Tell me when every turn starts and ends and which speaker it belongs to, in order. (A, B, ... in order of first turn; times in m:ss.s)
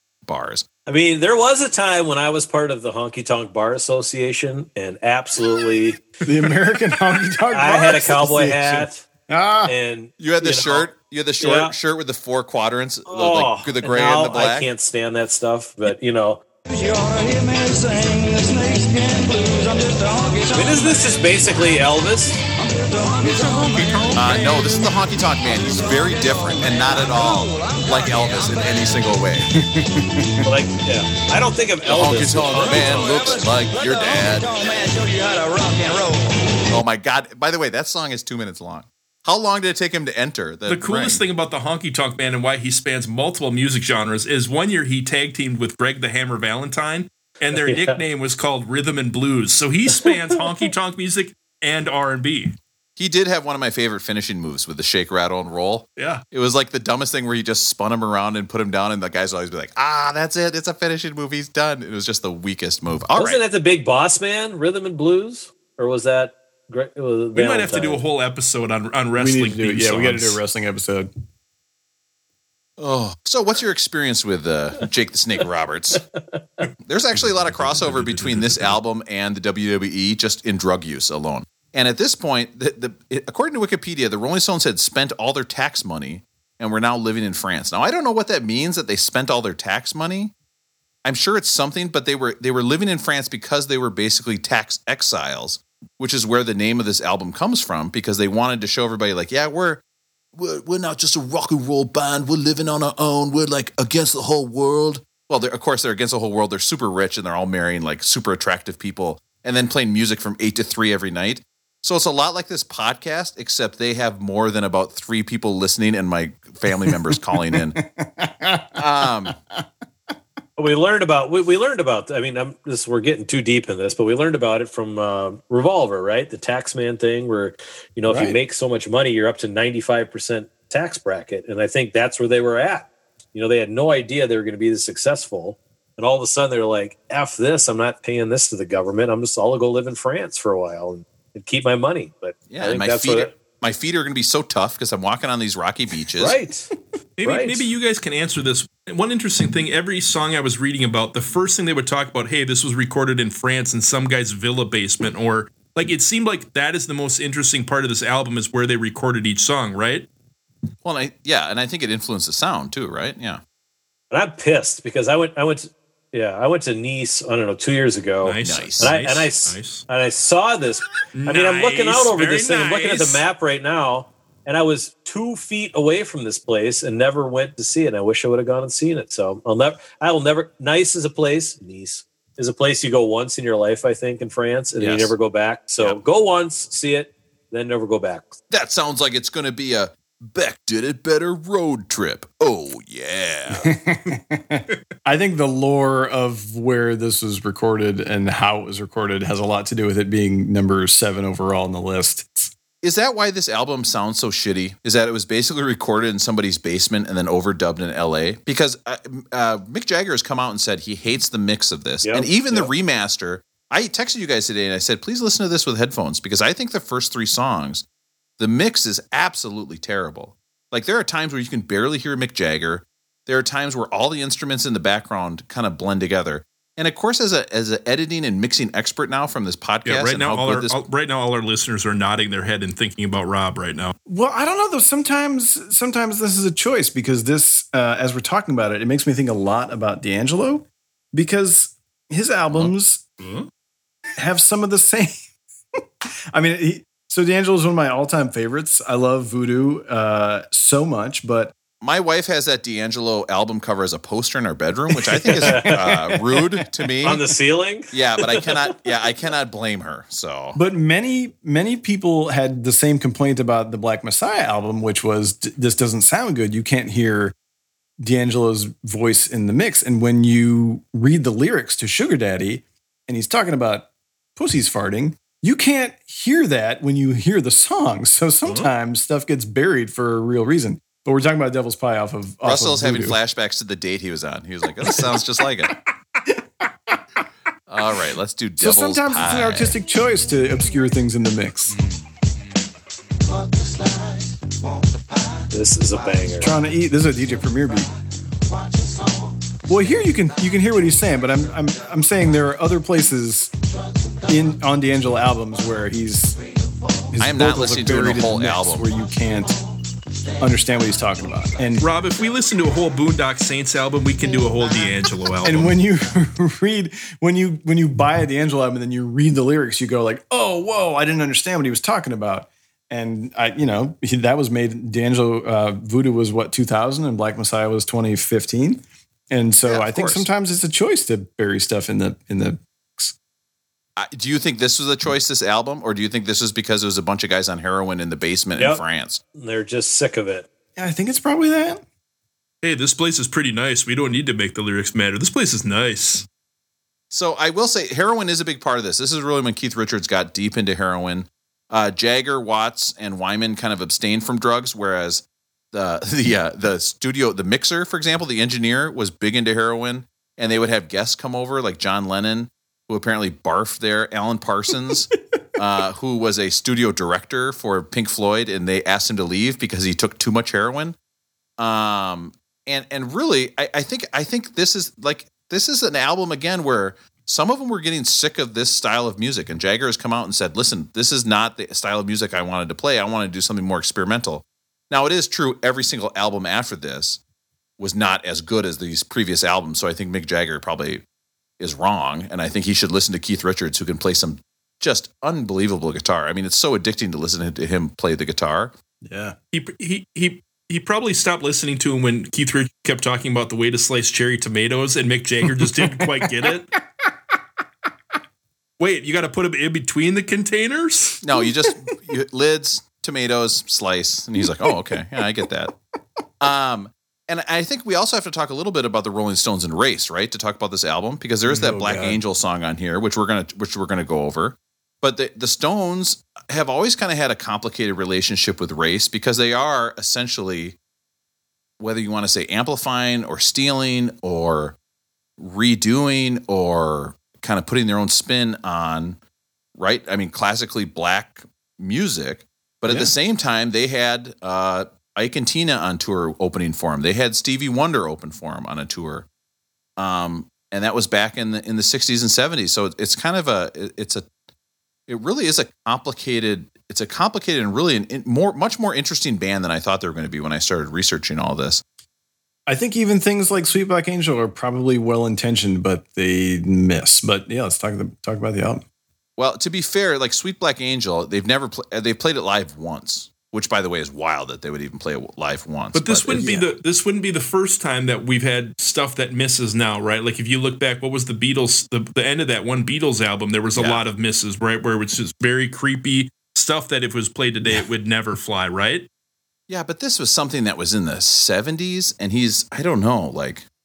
0:00.2-0:00.7 A
0:00.9-0:06.2 B
0:06.2-0:09.7 C
0:07.5-0:09.1 B
0:09.7-0:11.7 B
0:10.2-0:14.7 A
0:13.1-0:16.4 B
0:16.7-0:21.3 D
0:20.5-0:22.4 B
0:22.6-0:24.7 D
0:23.4-0:24.4 E
0:24.2-0:29.5 A
0:25.6-0:29.0 D
0:29.5-0:30.5 C
0:30.4-0:33.1 B
0:31.9-0:34.6 A
0:32.6-0:36.4 D
0:36.7-0:41.2 A
0:40.7-0:52.6 E
0:47.7-0:48.0 B
0:53.0-1:03.4 A
0:56.0-0:56.2 E
1:03.2-1:08.0 B
1:07.4-1:10.4 E
1:09.2-1:11.1 C
1:12.8-1:16.0 A
1:16.9-1:30.3 A
1:17.2-1:18.8 E
1:31.0-1:39.8 A
1:40.4-1:57.8 A
1:56.8-1:59.6 C
1:58.8-1:59.4 A
2:00.6-2:23.4 B
2:08.1-2:08.4 C
2:22.5-2:26.4 A
2:26.2-2:26.7 B
2:27.2-2:40.1 E
2:27.2-2:27.7 B
2:40.8-2:43.4 A
2:44.1-3:08.4 B
2:48.2-2:49.8 E
2:48.4-2:48.9 A
2:51.2-2:53.2 E
3:04.8-3:05.2 A
3:08.5-3:13.8 A
3:13.6-3:22.5 C
3:22.8-3:37.8 A
3:32.0-3:32.7 B
3:38.4-3:50.8 A
3:49.8-3:54.0 E
3:54.1-4:03.0 C
4:03.2-4:03.5 E
4:04.2-4:05.2 C
4:05.8-4:11.6 C
4:11.8-4:17.2 A
4:15.3-4:15.9 B
4:17.0-4:18.7 B
4:17.9-4:20.6 A
4:20.6-4:27.4 C
4:28.0-4:43.2 C
4:42.4-4:45.8 A
4:44.8-4:45.2 C
4:46.2-4:47.0 C
4:47.7-4:49.7 A
4:48.6-4:51.8 C
4:55.5-4:56.5 B
4:56.4-4:57.9 C
4:59.7-5:03.5 C
5:04.3-5:06.4 C
5:07.1-5:09.6 C
5:07.2-5:08.8 A
5:10.4-5:11.9 C
5:11.8-5:15.7 E
5:15.4-5:33.1 C
5:29.7-5:30.3 A
5:34.0-5:39.2 A
5:39.4-5:40.5 B
5:40.8-5:41.8 C
5:42.6-5:46.3 E
5:47.1-6:11.0 A
6:11.6-6:27.2 A
6:27.8-6:31.0 A
6:31.6-6:38.7 A
6:39.0-6:39.4 C
6:39.5-6:46.7 E
6:45.5-6:46.5 C
6:48.8-6:51.2 E
6:51.2-6:55.8 A
6:54.6-6:54.9 C
6:56.4-7:10.8 A
7:01.5-7:02.2 C
7:11.8-7:14.8 A
7:15.4-7:19.2 A
7:19.8-7:29.3 A
7:22.9-7:23.1 C
7:30.0-7:34.3 A
7:35.1-7:41.8 A
7:42.7-7:48.8 C
7:49.4-7:56.7 A
7:55.9-8:09.1 E
8:03.8-8:04.0 A
8:09.7-8:13.6 A